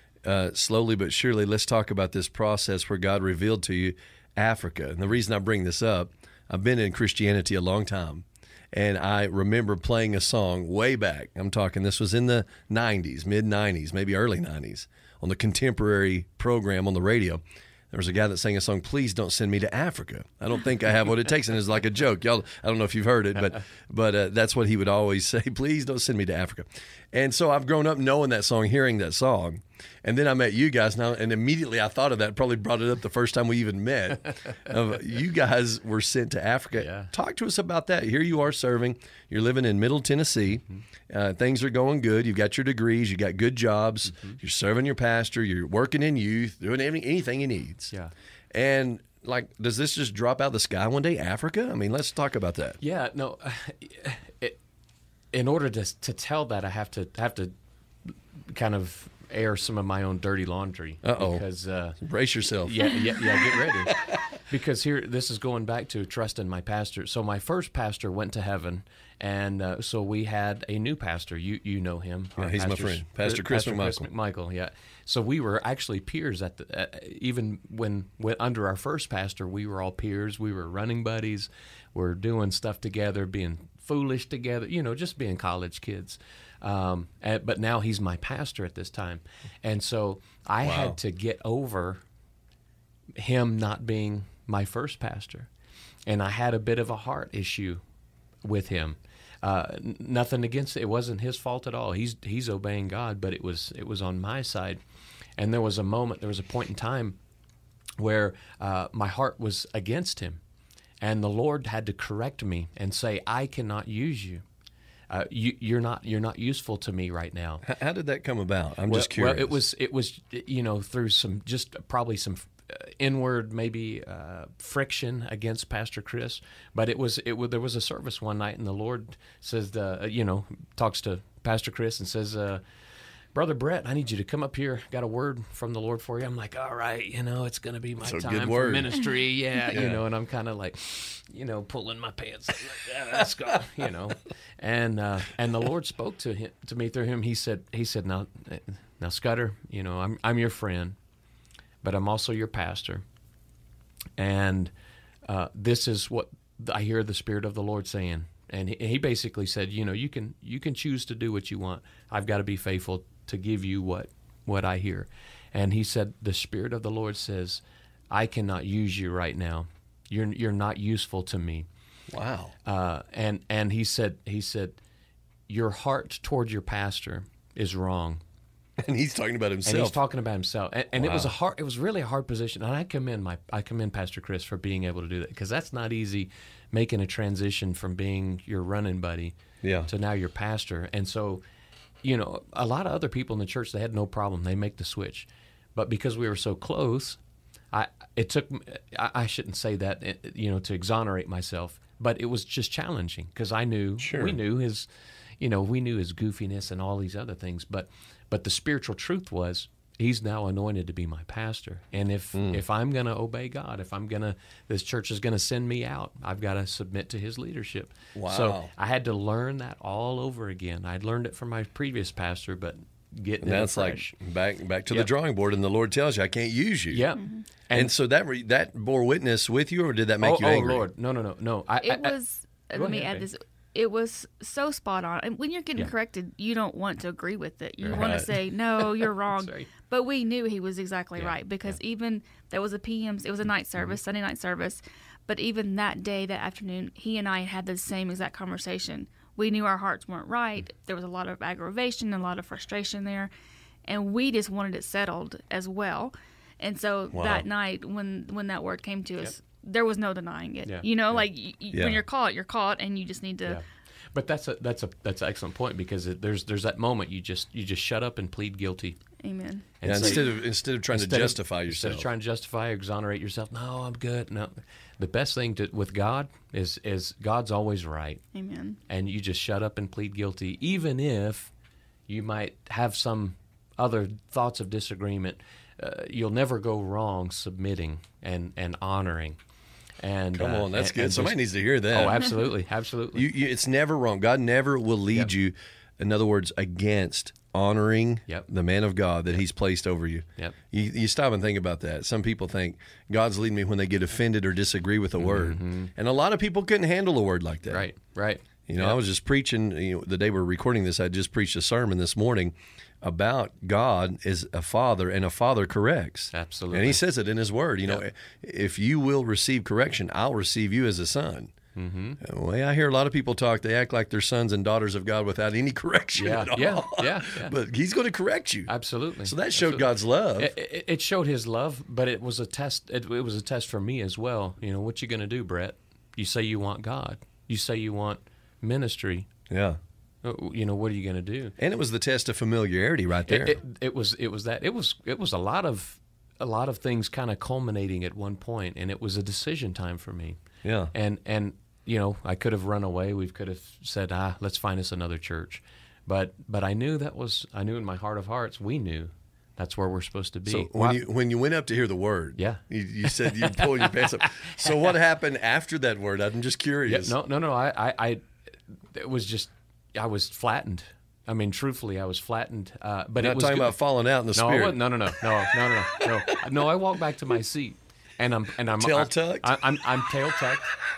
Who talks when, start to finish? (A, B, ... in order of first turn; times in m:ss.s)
0:00.2-0:47.9 A
0:36.8-0:37.1 B
0:40.6-0:40.8 B
0:44.1-0:44.4 B
0:48.5-0:52.8 A
0:52.8-0:54.6 B
0:55.3-0:57.5 B
0:58.1-1:02.0 B
1:01.0-1:01.4 A
1:02.0-1:03.0 A
1:02.6-1:32.0 B
1:12.4-1:14.1 A
1:30.6-1:31.0 A
1:33.2-1:35.5 B
1:36.1-1:37.8 B
1:38.4-1:44.8 B
1:45.4-1:47.2 B
1:48.0-1:50.4 B
1:51.0-1:54.4 B
1:55.1-1:57.7 B
1:57.6-1:59.6 A
1:58.9-2:12.6 B
2:13.3-2:31.0 B
2:18.0-2:18.9 A
2:19.7-2:20.0 A
2:31.8-2:33.0 B
2:34.2-2:34.7 B
2:35.2-2:51.7 B
2:52.1-2:52.5 A
2:52.6-2:54.8 B
2:55.5-2:58.2 B
2:58.8-3:00.0 A
2:59.6-3:09.4 B
3:01.0-3:01.3 A
3:09.6-3:09.9 A
3:09.9-3:11.4 B
3:12.0-3:17.2 B
3:17.7-3:24.9 B
3:24.0-3:24.4 A
3:25.4-3:44.1 B
3:32.4-3:32.6 A
3:38.2-3:38.7 A
3:43.4-3:47.0 A
3:46.9-3:47.9 B
3:47.2-3:47.4 C
3:47.7-3:50.9 A
3:50.2-3:52.2 B
3:51.8-4:13.3 C
3:52.7-3:53.3 B
3:57.8-3:59.7 B
3:57.9-3:58.3 A
4:01.2-4:01.8 B
4:13.9-4:23.6 C
4:17.1-4:17.5 A
4:20.6-4:21.3 B
4:21.7-4:22.0 A
4:23.4-4:29.0 B
4:29.2-4:30.2 C
4:29.8-4:38.2 B
4:29.8-4:32.1 A
4:38.3-4:38.8 C
4:38.9-4:41.5 B
4:42.1-4:49.4 B
4:50.0-4:53.3 B
4:50.4-4:52.3 A
4:53.1-5:07.9 A
5:05.2-5:05.9 B
5:07.7-5:09.0 B
5:08.7-5:21.5 A
5:16.3-5:17.0 B
5:21.8-5:22.2 B
5:22.2-5:28.7 A
5:26.2-5:27.5 B
5:28.7-5:39.3 B
5:29.2-5:30.5 A
5:39.5-5:39.8 A
5:40.2-5:41.6 B
5:41.6-5:43.6 A
5:43.3-5:50.4 B
5:50.6-5:50.9 A
5:50.9-6:01.0 B
6:00.5-6:07.2 A
6:02.4-6:04.7 B
6:06.8-6:13.8 B
6:13.2-6:15.0 A
6:14.3-6:20.8 B
6:16.0-6:16.4 A
6:18.8-6:20.1 A